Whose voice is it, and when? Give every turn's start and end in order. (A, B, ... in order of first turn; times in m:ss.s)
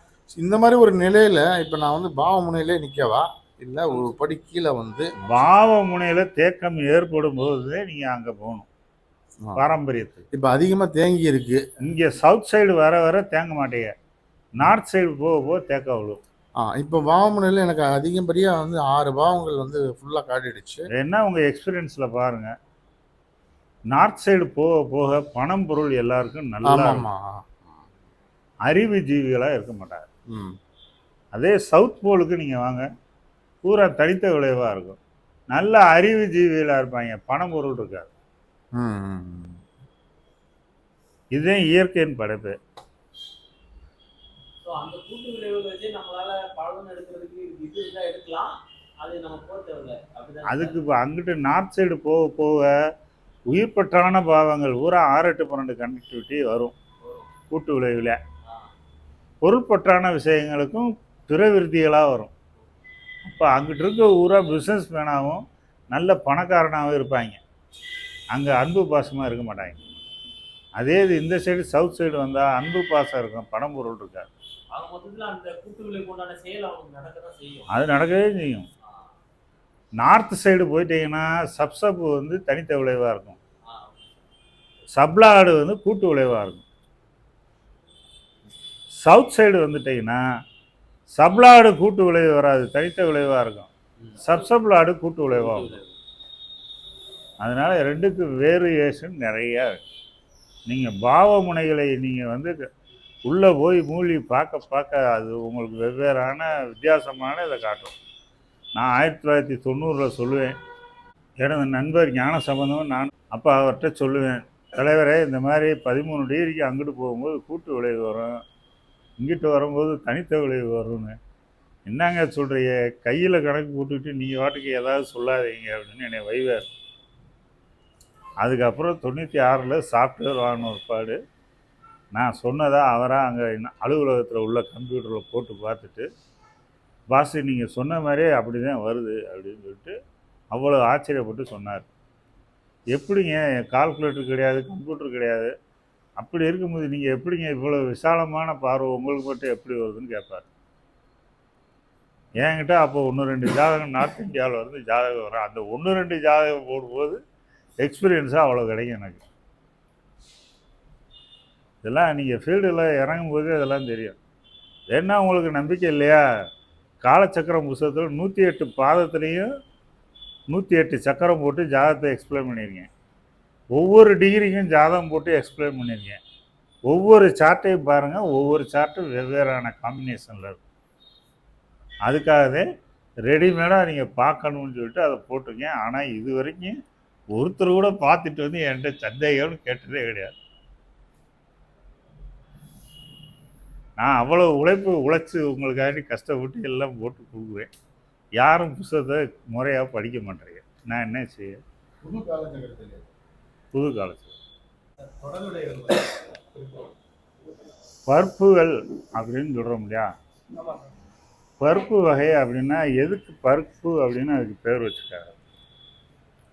0:00.3-0:05.1 A
0:05.2-0:08.7 B
0:09.6-0:10.2 B
0:10.3-0:11.6 A
0:11.8-0:13.9 B
0:14.6-0:16.2 B
0:16.6-0:20.9 A
0:20.9-0:22.5 B
0:23.9-0:27.1 B
0:26.6-0:27.6 A
0:28.6-0:30.0 B
0:30.3-0:30.6 A
0:31.3-0:32.9 B
0:33.6-0:35.0 B
0:35.5-0:38.1 B
0:38.8-0:39.6 A
0:41.3-0:42.6 B
0:44.6-0:50.8 C
0:50.5-0:52.7 B
0:53.5-0:56.7 B
0:57.5-0:58.2 B
0:59.4-1:02.3 B
1:03.2-1:07.4 B
1:08.3-1:09.8 B
1:10.8-1:14.3 B
1:14.7-1:17.7 C
1:17.7-1:18.7 B
1:20.0-1:23.4 B
1:23.7-1:24.1 C
1:24.9-1:26.6 B
1:29.0-1:30.2 B
1:31.2-1:35.8 B
1:35.3-1:35.8 C
1:37.4-1:39.8 B
1:40.7-1:42.6 B
1:43.2-1:48.0 B
1:48.8-1:50.5 B
1:51.4-1:58.4 B
1:59.2-2:01.2 B
2:01.9-2:06.7 B
2:08.4-2:11.2 B
2:12.1-2:16.1 B
2:17.1-2:20.0 B
2:20.5-2:21.9 B
2:22.9-2:25.5 B
2:26.2-2:30.4 B
2:32.4-2:37.2 B
2:37.8-2:39.2 B
2:41.8-2:44.2 B
2:44.9-2:46.2 B
2:47.0-2:49.5 B
2:50.5-2:52.9 B
2:53.7-2:56.2 B
2:56.9-3:00.6 B
3:02.0-3:02.6 B
3:03.2-3:06.8 B
3:07.3-3:10.4 B
3:14.0-3:17.7 B
3:18.4-3:21.6 B
3:22.0-3:23.0 A
3:23.7-3:24.3 B
3:25.2-3:26.2 C
3:28.1-3:30.1 B
3:31.6-3:35.4 B